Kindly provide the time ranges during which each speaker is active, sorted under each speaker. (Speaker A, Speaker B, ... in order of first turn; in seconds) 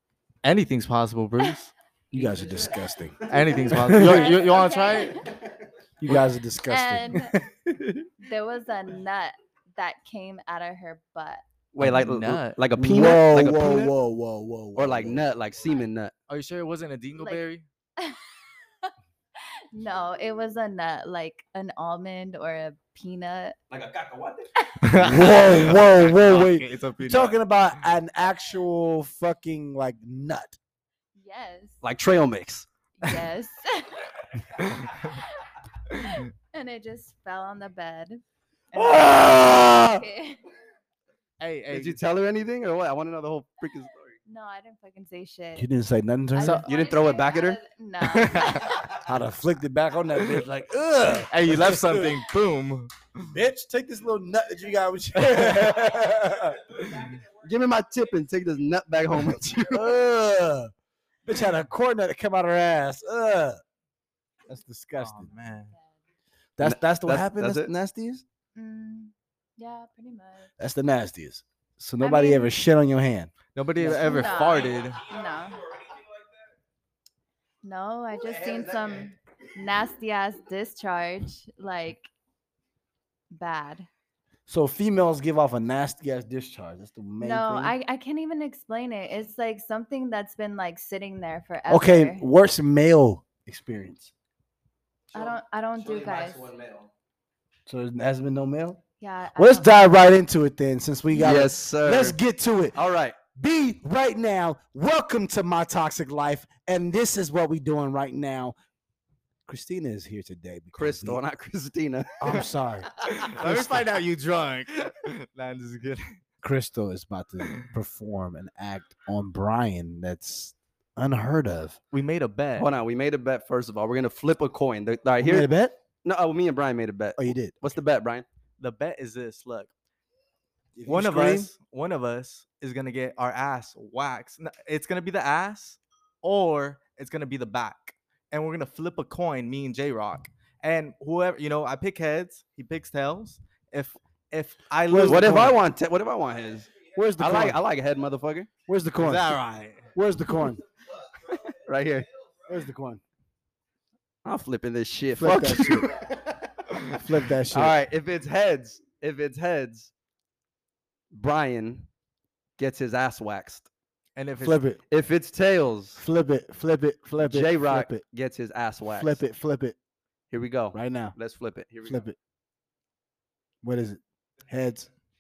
Speaker A: 0.4-1.7, 3.3-5.2, 11.8-13.2, 16.3-17.7, 24.8-27.4, 41.4-42.0, 48.0-48.8, 51.3-53.3, 55.2-55.7, 65.0-65.7, 73.5-75.0, 113.0-116.2, 121.9-122.7, 128.6-129.7, 130.9-145.6, 149.0-149.9, 164.2-164.6
Speaker B: 2.1-4.3, 6.0-7.9, 12.8-15.2, 25.0-30.6, 38.8-40.0, 45.6-46.6, 49.0-52.2, 53.3-56.7, 59.7-60.7, 61.3-63.6, 64.5-65.3, 66.6-68.2, 70.6-74.4, 84.5-87.8, 91.7-94.1, 97.7-98.8, 99.3-102.8, 103.3-108.5, 109.5-111.2, 112.2-113.9, 116.4-121.8, 125.2-125.8, 127.2-127.6, 130.8-131.5, 144.9-145.6, 146.9-147.6, 148.7-149.4, 149.9-150.6, 152.5-153.0, 155.2-156.0, 156.8-157.8, 164.4-164.8, 166.0-168.0, 168.9-169.8, 170.7-171.1, 171.9-172.2, 173.6-174.9
Speaker C: 3.5-5.4, 6.7-7.4, 8.2-11.4, 17.2-17.5, 18.0-18.3, 18.8-23.6, 24.6-24.9, 31.1-31.8, 33.0-34.1, 35.9-40.4, 44.3-45.7, 46.3-49.0, 65.7-66.0, 68.5-70.5, 72.0-72.5, 73.8-75.7, 77.6-82.1, 83.3-83.9, 87.2-92.2, 95.1-96.5, 99.0-99.9
Speaker D: 11.7-13.9, 14.8-16.1, 23.7-24.5, 31.8-32.7, 41.7-44.2, 46.6-47.6, 57.1-59.9, 66.6-67.7, 95.1-96.9, 101.1-102.2, 102.7-103.2, 110.7-112.5, 122.6-125.5, 126.0-128.2, 145.1-148.5, 151.4-152.1, 154.2-156.1, 157.5-159.9, 161.1-161.9, 162.6-163.7, 164.9-166.0, 167.2-169.2, 170.3-172.0